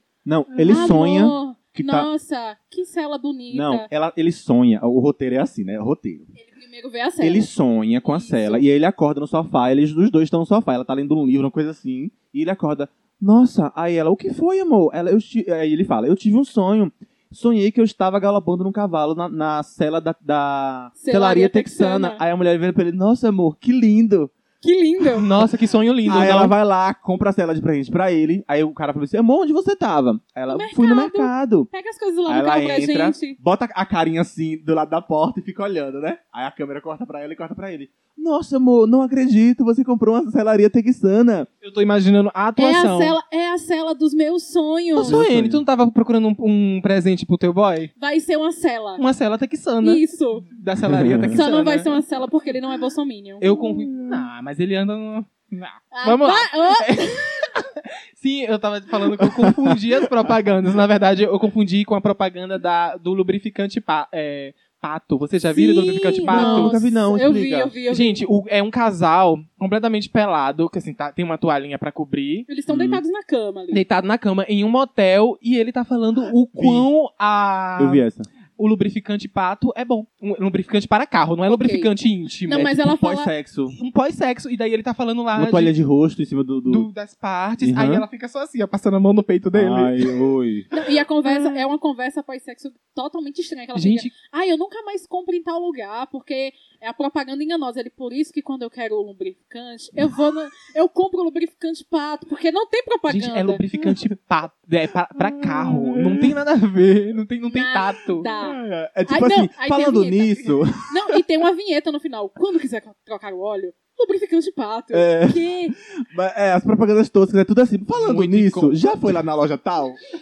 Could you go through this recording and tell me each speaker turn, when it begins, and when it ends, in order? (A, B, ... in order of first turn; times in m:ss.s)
0:00.2-0:02.1 A
0:00.6-0:03.9 B
0:03.5-0:06.3 A
0:06.4-0:07.5 B
0:07.2-0:24.3 A
0:08.0-0:08.6 B
0:21.0-0:22.2 B
0:24.6-0:25.3 B
0:25.1-0:26.6 C
0:26.1-0:31.7 A
0:30.5-0:33.4 B
0:32.3-0:41.5 A
0:41.6-0:43.2 C
0:42.6-0:45.2 B
0:45.0-0:47.9 C
0:45.0-0:45.6 A
0:48.0-0:49.0 B
0:49.0-0:52.0 C
0:49.8-0:50.5 B
0:50.9-0:51.4 A
0:51.3-0:53.5 B
0:53.4-1:06.8 C
0:53.5-0:54.2 A
0:55.9-0:57.4 B
0:59.2-0:59.9 A
1:05.5-1:08.2 B
1:06.2-1:07.7 A
1:07.9-1:12.5 C
1:12.5-1:13.8 B
1:12.7-1:13.0 A
1:13.7-1:18.0 C
1:16.5-1:16.9 A
1:17.8-1:18.3 A
1:18.6-1:22.8 C
1:21.5-1:21.9 B
1:22.5-1:23.3 B
1:22.5-1:23.8 A
1:23.7-1:25.8 C
1:25.4-1:26.9 A
1:26.7-1:30.3 C
1:27.6-1:28.1 A
1:29.5-1:30.7 A
1:30.7-1:43.6 B
1:31.2-1:31.6 C
1:33.8-1:34.1 C
1:43.1-1:48.3 C
1:45.3-1:46.3 A
1:47.5-1:55.8 B
1:48.3-1:51.2 A
1:54.9-2:00.0 A
1:57.9-1:59.2 C